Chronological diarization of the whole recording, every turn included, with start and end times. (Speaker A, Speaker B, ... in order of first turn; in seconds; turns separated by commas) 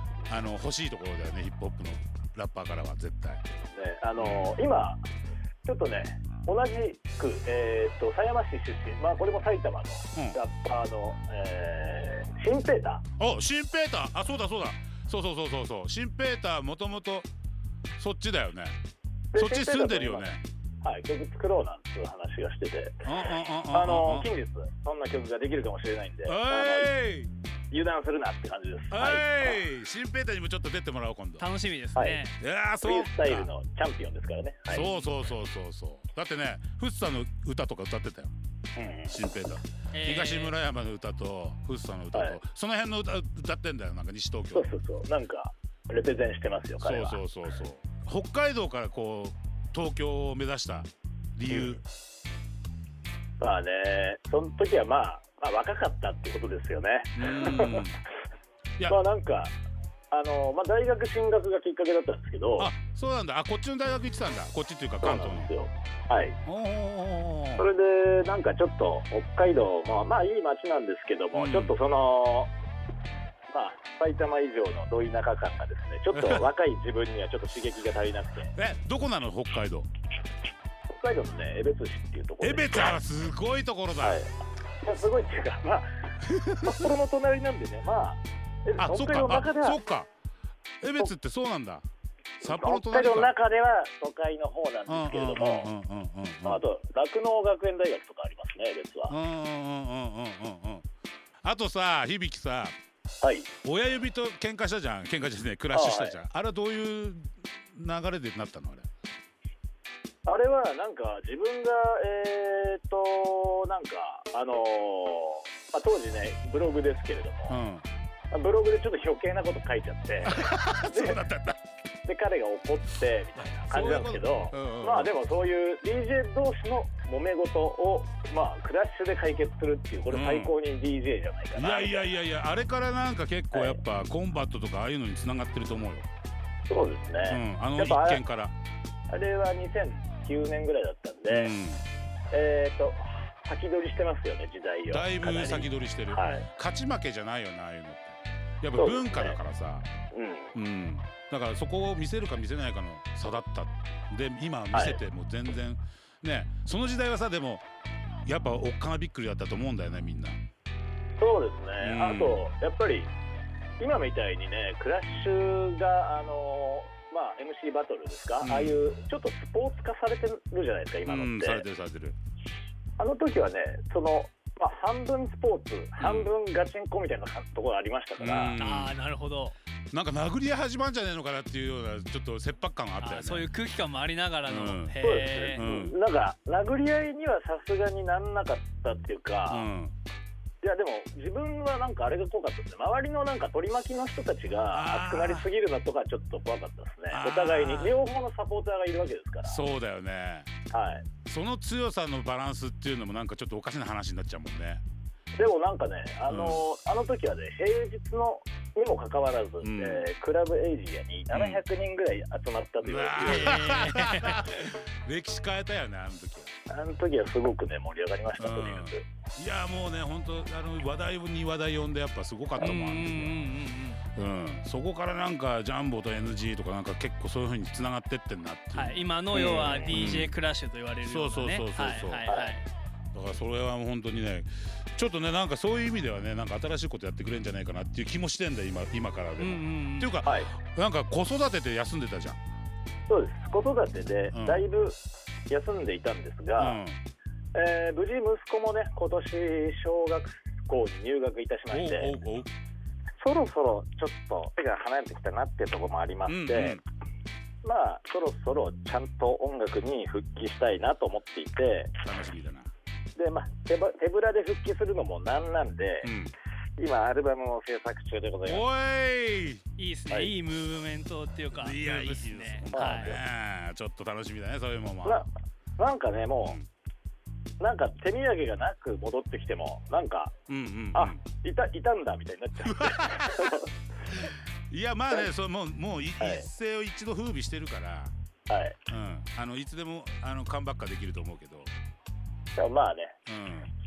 Speaker A: 0.3-3.4, Speaker B: 3.6-5.0, Speaker A: 4.2-4.6, Speaker B: 5.7-13.0, Speaker A: 13.2-17.3, Speaker A: 18.0-18.8, Speaker B: 19.3-20.3, Speaker A: 19.4-20.4, Speaker B: 20.8-26.9, Speaker A: 23.0-24.3, Speaker A: 26.2-27.3, Speaker B: 27.7-29.6, Speaker A: 28.9-31.5, Speaker C: 31.4-32.4, Speaker B: 31.9-32.2, Speaker A: 32.4-33.5, Speaker B: 32.8-34.9, Speaker A: 34.7-38.3, Speaker B: 38.8-39.1, Speaker A: 39.1-44.7, Speaker C: 39.9-40.5, Speaker B: 42.1-42.4, Speaker B: 44.5-47.2, Speaker A: 46.8-51.8, Speaker B: 53.4-57.9, Speaker A: 57.2-58.0, Speaker B: 58.9-59.5, Speaker B: 60.1-62.7, Speaker A: 62.6-65.5, Speaker B: 65.0-66.4, Speaker A: 66.5-67.7, Speaker B: 67.6-72.5, Speaker A: 71.3-71.7, Speaker B: 73.5-78.5, Speaker A: 76.1-76.4, Speaker A: 78.5-79.9, Speaker B: 80.9-83.0, Speaker A: 82.4-84.2, Speaker B: 84.0-84.3, Speaker B: 84.8-85.9, Speaker A: 86.4-86.9, Speaker B: 86.6-89.8, Speaker A: 88.8-90.1, Speaker A: 90.8-91.8, Speaker A: 92.4-93.3, Speaker B: 92.4-95.7, Speaker A: 94.9-96.6, Speaker B: 96.5-99.2, Speaker A: 99.1-100.8, Speaker A: 101.4-102.8, Speaker B: 103.2-103.5, Speaker A: 103.6-108.9, Speaker B: 105.7-106.2, Speaker B: 110.3-117.6, Speaker A: 117.5-117.9, Speaker B: 118.3-121.2, Speaker A: 120.3-121.6, Speaker B: 122.0-132.1, Speaker A: 123.6-125.1, Speaker A: 130.1-130.6, Speaker A: 131.6-136.1, Speaker B: 133.5-133.8, Speaker B: 136.7-138.2, Speaker A: 137.2-138.5, Speaker B: 139.1-141.5, Speaker A: 141.3-141.8, Speaker B: 142.3-146.5, Speaker A: 144.9-149.9, Speaker B: 148.8-149.4, Speaker B: 150.1-150.6, Speaker A: 150.6-157.6, Speaker B: 154.7-155.0, Speaker A: 158.3-160.4, Speaker B: 161.2-163.1, Speaker A: 161.8-162.4, Speaker B: 163.8-171.6, Speaker A: 168.4-168.8, Speaker A: 171.1-172.2, Speaker B: 173.0-178.6, Speaker A: 176.0-176.3, Speaker A: 178.2-179.0, Speaker C: 178.6-179.6, Speaker A: 179.9-183.5, Speaker C: 183.0-185.6, Speaker A: 184.5-185.0, Speaker B: 185.0-189.7, Speaker A: 185.6-186.0, Speaker A: 189.5-189.9, Speaker B: 190.6-199.6, Speaker A: 194.7-195.5, Speaker A: 197.1-198.0, Speaker A: 199.4-200.5, Speaker B: 200.7-201.1, Speaker A: 201.2-204.8, Speaker B: 205.4-213.6, Speaker A: 206.3-206.7, Speaker A: 209.6-210.1, Speaker A: 211.3-211.6, Speaker A: 212.8-216.5, Speaker C: 213.2-214.5, Speaker B: 216.7-219.1, Speaker A: 218.4-223.4, Speaker C: 222.6-224.0, Speaker A: 224.1-230.4, Speaker C: 228.7-232.6, Speaker B: 229.3-230.0, Speaker A: 231.0-232.3, Speaker B: 232.3-232.6, Speaker A: 233.1-242.4, Speaker C: 239.4-240.2, Speaker B: 240.2-240.5, Speaker B: 243.1-245.0, Speaker A: 244.3-244.6, Speaker B: 245.5-246.8, Speaker A: 246.6-247.0, Speaker B: 247.5-252.2, Speaker A: 251.7-252.5, Speaker B: 253.2-256.8, Speaker A: 256.3-256.8, Speaker B: 257.6-262.0, Speaker A: 262.0-262.7, Speaker B: 263.2-266.1, Speaker A: 266.0-266.3, Speaker B: 266.8-268.7, Speaker A: 268.4-269.6, Speaker C: 269.8-273.2, Speaker B: 270.1-270.4, Speaker A: 271.5-275.3, Speaker B: 272.7-273.2, Speaker B: 275.1-276.6, Speaker B: 277.6-280.3, Speaker A: 280.5-281.2, Speaker B: 280.9-283.7, Speaker A: 282.7-288.1, Speaker B: 286.2-286.5, Speaker B: 288.5-288.8, Speaker A: 288.9-291.7, Speaker B: 292.6-293.1, Speaker A: 293.3-293.7